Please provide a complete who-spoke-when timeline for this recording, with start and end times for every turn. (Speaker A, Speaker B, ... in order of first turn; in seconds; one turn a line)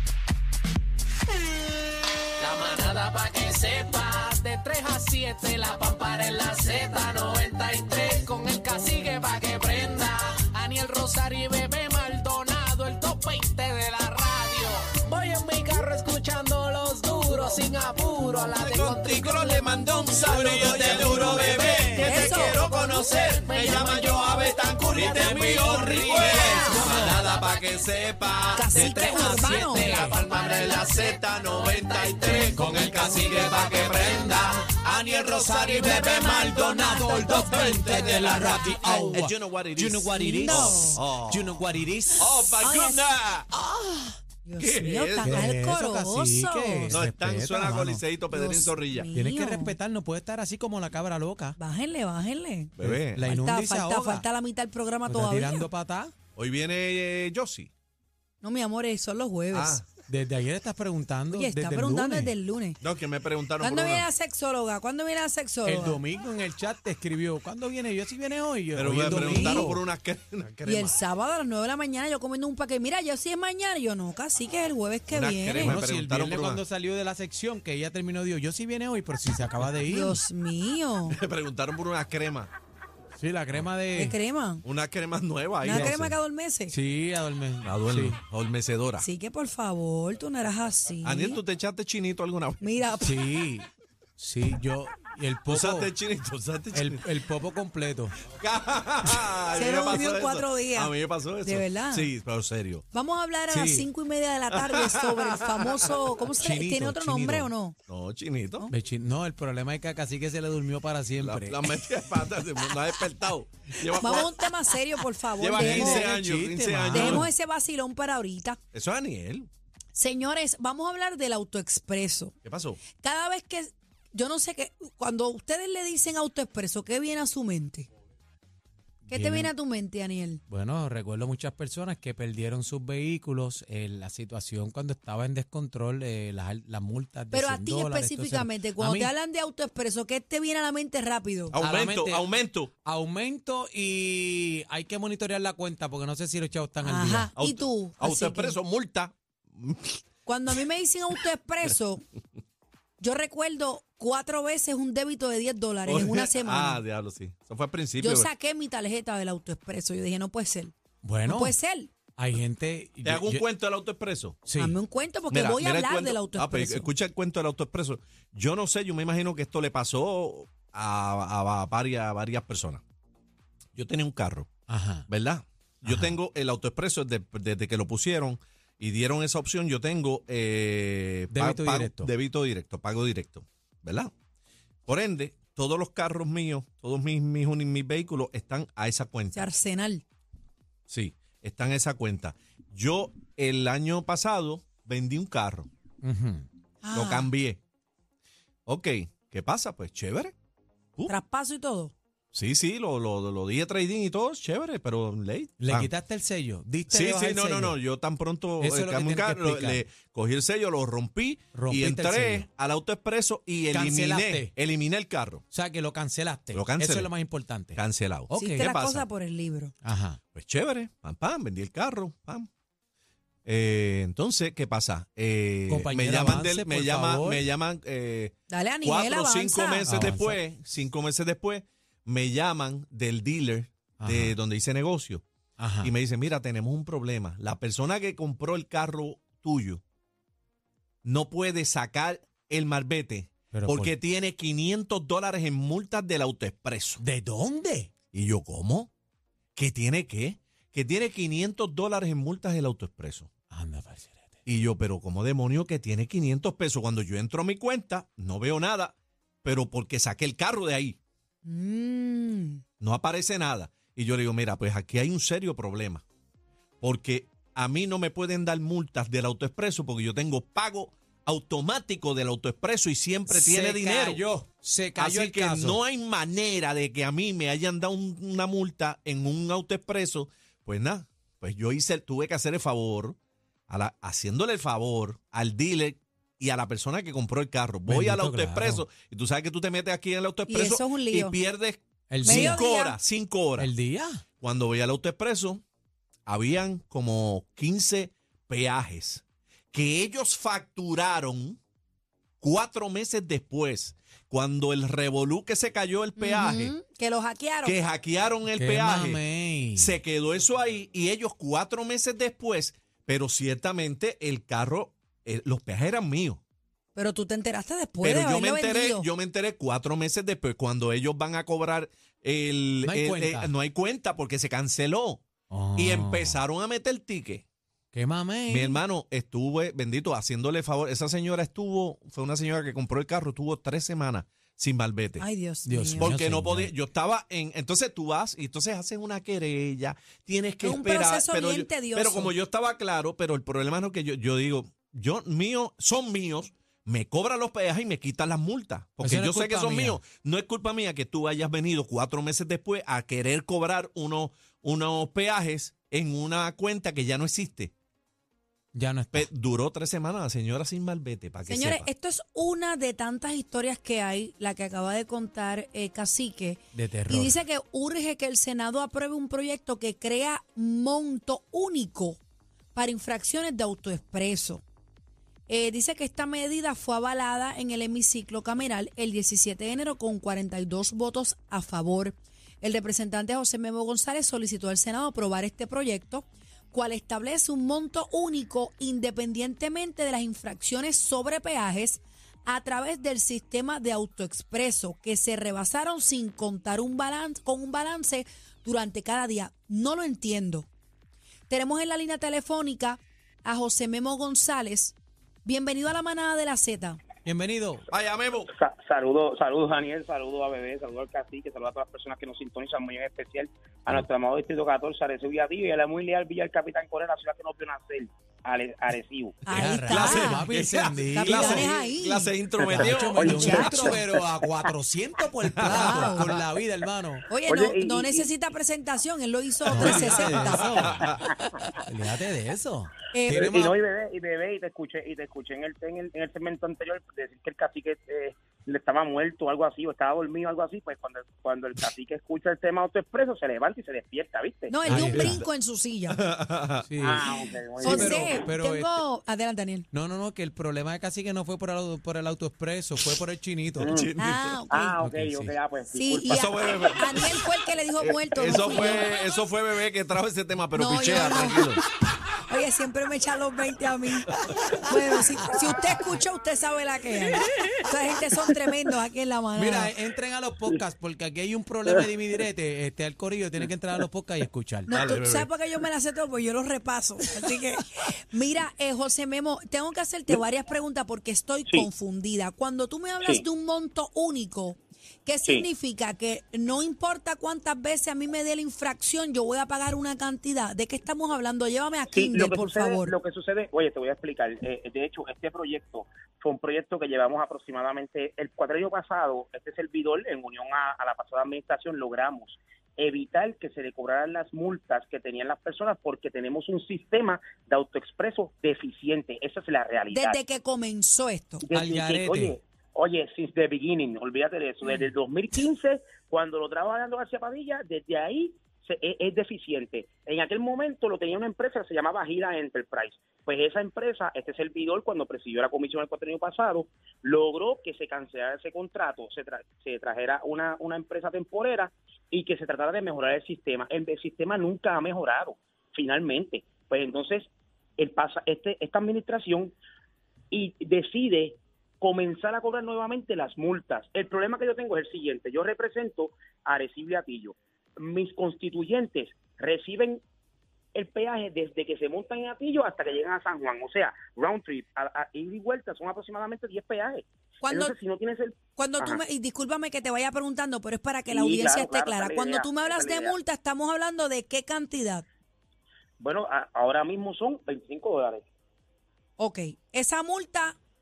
Speaker A: 2.4-27.2
Speaker B: 18.4-41.6
Speaker C: 22.0-22.6
Speaker D: 25.1-27.2
Speaker C: 26.4-26.8
Speaker C: 28.5-30.0
Speaker A: 28.7-34.4
Speaker D: 29.4-30.1
Speaker D: 32.5-33.4
Speaker D: 34.8-42.3
Speaker A: 37.2-38.3
Speaker C: 40.1-41.0
Speaker B: 42.2-43.5
Speaker C: 42.6-43.0
Speaker C: 44.4-47.0
Speaker B: 44.6-45.5
Speaker D: 45.2-48.0
Speaker B: 46.9-49.1
Speaker C: 48.3-49.8
Speaker D: 49.1-51.6
Speaker C: 51.6-52.7
Speaker B: 52.8-53.3
Speaker D: 52.8-54.2
Speaker C: 53.2-55.7
Speaker D: 55.1-56.1
Speaker B: 56.4-57.7
Speaker C: 58.4-59.8
Speaker B: 59.5-59.8
Speaker D: 60.1-62.3
Speaker C: 61.3-62.8
Speaker B: 62.8-64.1
Speaker C: 63.6-66.0
Speaker D: 65.6-69.8
Speaker B: 68.7-71.0
Speaker C: 69.1-69.8
Speaker C: 70.6-75.8
Speaker B: 75.1-76.6
Speaker D: 75.6-80.2
Speaker C: 79.9-81.2
Speaker B: 81.1-82.5
Speaker D: 83.2-84.2
Speaker C: 83.9-84.6
Speaker B: 84.6-86.1
Speaker C: 85.6-86.7
Speaker D: 85.7-86.1
Speaker D: 86.7-88.2
Speaker B: 87.6-89.1
Speaker C: 89.0-91.4
Speaker B: 91.0-92.9
Speaker C: 92.6-93.2
Speaker D: 93.0-95.9
Speaker B: 95.5-97.0
Speaker D: 96.7-98.2
Speaker B: 98.3-102.8
Speaker C: 99.5-102.1
Speaker C: 102.9-107.8
Speaker D: 103.5-103.9
Speaker B: 104.5-106.0
Speaker D: 106.4-107.5
Speaker B: 107.9-108.7
Speaker D: 108.7-111.7
Speaker B: 111.2-114.4
Speaker C: 113.9-116.1
Speaker B: 115.4-117.3
Speaker D: 115.5-117.3
Speaker C: 116.9-118.6
Speaker B: 118.7-119.5
Speaker C: 119.9-122.3
Speaker B: 122.4-122.8
Speaker C: 123.0-127.9
Speaker D: 129.1-129.5
Speaker C: 129.1-130.4
Speaker D: 130.5-139.1
Speaker C: 137.3-141.5
Speaker B: 141.5-142.7
Speaker D: 141.6-147.3
Speaker C: 146.8-148.6
Speaker B: 147.3-150.5
Speaker C: 150.2-152.0
Speaker C: 153.0-156.8
Speaker B: 155.9-158.3
Speaker C: 158.0-160.7
Speaker D: 161.0-161.6
Speaker C: 161.2-161.9
Speaker D: 162.2-163.4
Speaker B: 163.0-164.4
Speaker D: 164.4-164.8
Speaker C: 164.6-166.9
Speaker B: 165.3-172.8
Speaker B: 173.7-174.5
Speaker D: 174.7-175.1
Speaker B: 175.1-184.1
Speaker D: 175.8-176.2
Speaker D: 181.3-182.1
Speaker B: 184.8-189.5
Speaker C: 189.3-190.0
Speaker B: 190.9-195.7
Speaker D: 196.0-196.5
Speaker C: 196.8-197.3
Speaker B: 196.9-197.6
Speaker B: 198.7-200.3
Speaker C: 201.1-201.9
Speaker B: 202.3-205.9
Speaker D: 205.6-207.8
Speaker B: 206.9-215.4
Speaker D: 208.6-209.8
Speaker D: 211.5-212.5
Speaker D: 213.7-214.5
Speaker D: 215.5-218.7
Speaker B: 216.5-217.1
Speaker B: 217.7-219.1
Speaker C: 218.3-219.7
Speaker D: 219.8-220.2
Speaker B: 220.3-222.5
Speaker B: 223.4-235.2
Speaker D: 225.7-227.5
Speaker C: 228.5-230.1
Speaker D: 229.9-230.4
Speaker D: 234.0-234.4
Speaker D: 235.6-235.9
Speaker B: 235.8-239.8
Speaker B: 241.0-247.0
Speaker D: 243.5-243.9
Speaker D: 247.0-247.9
Speaker B: 248.1-248.9
Speaker B: 249.5-253.3
Speaker D: 253.5-254.4
Speaker B: 254.4-261.0
Speaker C: 261.4-262.6
Speaker B: 262.8-266.0
Speaker B: 266.8-274.2
Speaker D: 273.3-275.8
Speaker B: 274.9-283.2
Speaker B: 283.7-293.7
Speaker D: 287.9-288.8
Speaker C: 290.5-291.4
Speaker D: 292.1-292.6
Speaker C: 292.2-293.0
Speaker D: 293.6-294.2
Speaker B: 294.4-295.6
Speaker B: 296.3-301.6
Speaker B: 302.4-306.8
Speaker C: 306.2-307.8
Speaker B: 307.6-309.2
Speaker D: 308.5-310.0
Speaker B: 309.7-316.4
Speaker C: 316.9-319.1
Speaker B: 318.0-325.2
Speaker D: 322.8-323.5
Speaker D: 325.5-326.4
Speaker B: 325.8-327.4
Speaker D: 327.9-328.8
Speaker B: 328.5-335.2
Speaker C: 335.2-336.1
Speaker D: 335.6-336.7
Speaker B: 336.0-357.7
Speaker C: 340.6-342.3
Speaker D: 349.0-350.0
Speaker D: 358.7-359.3
Speaker B: 359.1-361.9
Speaker C: 361.5-372.2
Speaker D: 366.7-367.4
Speaker C: 372.7-374.6
Speaker C: 375.5-400.7
Speaker C: 401.5-407.0
Speaker D: 407.2-407.8
Speaker B: 407.9-408.5
Speaker E: 408.5-419.4
Speaker C: 419.4-420.5
Speaker D: 419.5-421.7
Speaker B: 419.6-423.9
Speaker C: 421.1-422.3
Speaker E: 422.6-423.9
Speaker D: 422.7-427.2
Speaker C: 423.3-424.0
Speaker B: 425.4-426.3
Speaker C: 425.6-426.3
Speaker C: 427.3-431.0
Speaker E: 427.5-428.3
Speaker D: 429.7-431.1
Speaker B: 429.7-431.3
Speaker D: 431.7-433.8
Speaker C: 433.1-433.4
Speaker E: 433.3-444.9
Speaker C: 444.7-446.2
Speaker D: 444.8-445.4
Speaker B: 444.9-445.4
Speaker B: 446.1-446.9
Speaker D: 446.8-449.0
Speaker E: 447.0-448.5
Speaker C: 447.8-449.9
Speaker D: 449.9-453.9
Speaker B: 453.8-454.6
Speaker E: 453.8-454.1
Speaker C: 454.2-455.0
Speaker E: 454.7-456.5
Speaker D: 455.0-455.6
Speaker C: 455.9-459.1
Speaker B: 456.3-457.4
Speaker B: 458.0-461.8
Speaker C: 460.7-461.7
Speaker C: 462.5-469.9
Speaker D: 469.5-474.9
Speaker C: 474.9-493.1
Speaker B: 474.9-475.5
Speaker E: 492.1-510.4
Speaker C: 510.1-511.6
Speaker E: 511.6-539.7
Speaker D: 511.7-512.5
Speaker E: 540.5-550.2
Speaker E: 550.9-559.2
Speaker C: 557.6-557.9
Speaker C: 558.8-565.2
Speaker E: 561.3-563.3
Speaker E: 566.2-568.4
Speaker C: 569.4-570.8